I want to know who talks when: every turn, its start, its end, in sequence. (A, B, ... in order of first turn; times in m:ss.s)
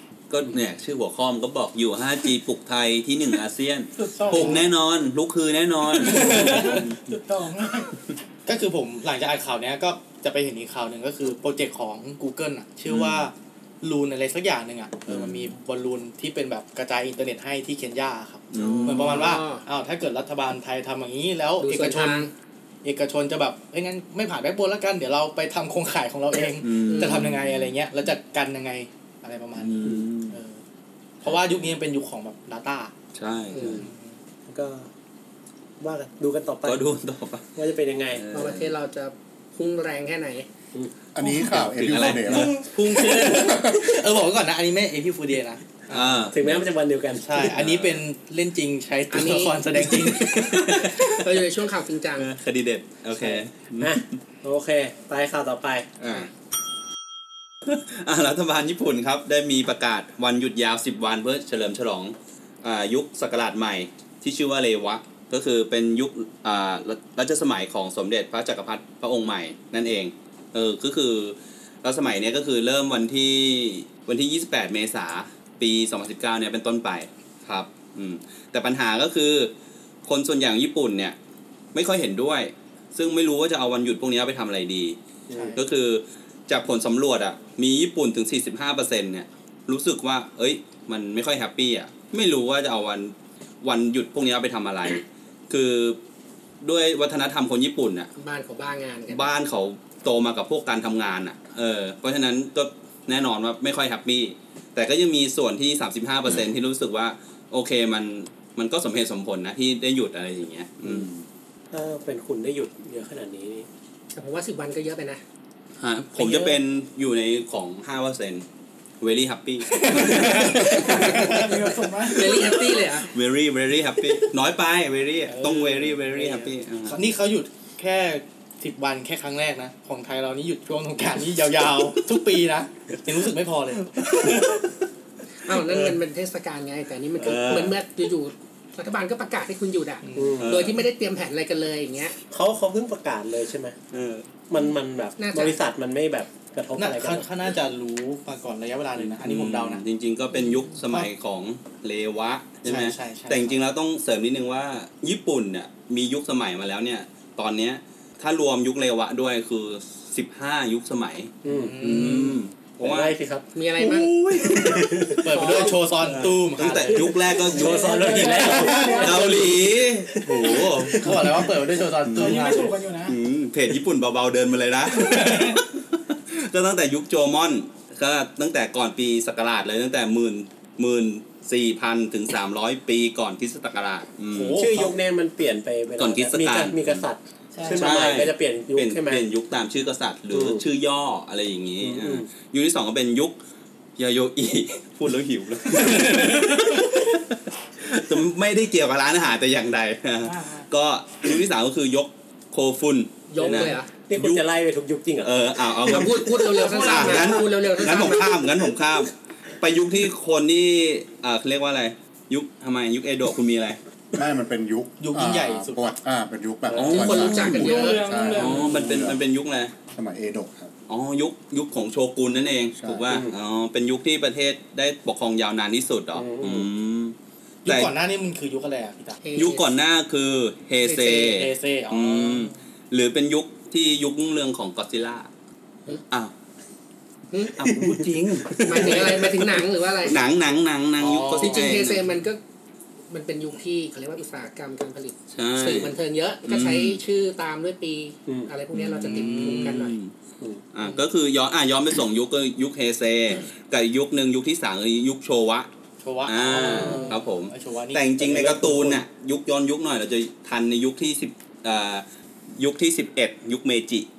0:00.3-0:07.0 A
0:04.0-0:04.7 B
0:06.0-0:07.9 B
0:06.0-0:06.8 C
0:08.5-0:22.3 C
0:12.9-0:13.3 A
0:15.1-0:15.5 A
0:18.5-0:19.4 A
0:18.6-0:19.6 D
0:21.6-0:22.3 D
0:22.8-0:30.6 C
0:26.6-0:27.7 A
0:26.9-0:27.3 D
0:29.6-0:30.4 A
0:31.2-0:32.9 C
0:31.2-0:31.7 A
0:33.1-0:33.9 A
0:33.6-0:33.9 D
0:33.6-0:34.1 C
0:34.5-0:34.9 E
0:35.8-0:36.8 E
0:36.6-0:37.5 A
0:37.6-0:38.3 E
0:38.1-0:38.8 A
0:38.3-0:40.5 D
0:41.2-0:44.0 F
0:41.5-0:42.7 A
0:42.3-0:46.3 C
0:45.9-0:46.7 A
0:46.3-0:47.5 E
0:47.2-0:51.2 C
0:47.5-0:48.0 A
0:49.1-0:52.3 D
0:52.2-0:54.0 A
0:53.1-0:55.9 E
0:56.0-0:56.3 A
0:57.7-1:19.5 A
1:20.0-1:21.2 A
1:21.7-1:25.0 A
1:25.3-1:25.6 E
1:25.3-1:25.6 C
1:25.6-1:36.0 A
1:36.6-1:38.1 A
1:38.2-1:39.3 D
1:39.1-1:51.2 A
1:51.7-1:53.7 E
1:54.1-1:55.2 D
1:55.8-1:58.4 A
1:56.2-1:56.6 D
1:59.0-2:01.1 A
1:59.7-2:02.6 B
1:59.9-2:01.6 C
2:02.0-2:03.1 D
2:02.1-2:07.0 A
2:05.3-2:06.5 E
2:06.9-2:14.6 C
2:14.0-2:14.7 A
2:15.4-2:22.2 D
2:15.5-2:16.0 A
2:17.2-2:17.8 A
2:20.0-2:20.4 C
2:20.2-2:20.7 E
2:20.4-2:20.8 A
2:22.3-2:23.8 E
2:23.9-2:24.3 A
2:24.5-2:27.3 E
2:25.2-2:25.6 D
2:26.8-2:29.8 C
2:29.0-2:43.2 A
2:32.6-2:33.6 C
2:41.4-2:41.8 E
2:41.5-2:42.4 C
2:42.8-2:43.5 E
2:43.6-2:44.2 D
2:43.8-2:45.1 A
2:44.4-2:51.5 E
2:45.2-2:47.1 C
2:46.6-2:51.3 A
2:47.4-2:49.5 B
2:48.2-2:49.1 C
2:51.0-2:52.7 C
2:52.0-2:52.6 A
2:52.1-2:53.2 B
2:53.1-3:04.9 A
2:54.9-2:55.6 B
3:04.3-3:09.3 E
3:04.5-3:04.8 C
3:06.0-3:07.0 A
3:07.5-3:08.2 B
3:07.7-3:13.4 A
3:10.3-3:10.6 E
3:11.8-3:12.3 E
3:14.0-3:24.4 A
3:20.2-3:20.7 B
3:23.3-3:23.9 D
3:23.4-3:26.1 E
3:25.2-3:33.8 A
3:25.8-3:28.5 D
3:26.6-3:27.6 B
3:34.2-3:39.2 F
3:35.0-3:35.9 C
3:36.7-3:37.1 E
3:36.7-3:39.7 A
3:36.9-3:38.2 D
3:37.4-3:39.0 B
3:39.9-3:40.7 F
3:40.9-3:47.2 A
3:42.8-3:43.2 F
3:43.1-3:43.4 E
3:46.2-3:46.7 E
3:47.6-3:49.2 C
3:47.7-3:47.9 A
3:49.2-3:49.7 D
3:49.4-3:55.3 A
3:50.9-3:52.5 C
3:57.3-3:57.6 D
3:57.6-3:59.3 A
3:57.7-3:59.6 E
3:58.6-4:00.2 D
4:00.0-4:02.1 A
4:01.0-4:01.9 C
4:01.4-4:02.4 D
4:03.1-4:10.0 D
4:05.3-4:07.0 A
4:08.3-4:08.5 E
4:08.7-4:10.1 A
4:09.1-4:09.8 C
4:10.7-4:15.7 A
4:16.0-4:19.0 C
4:16.3-4:22.0 A
4:18.2-4:18.8 E
4:22.6-4:24.1 A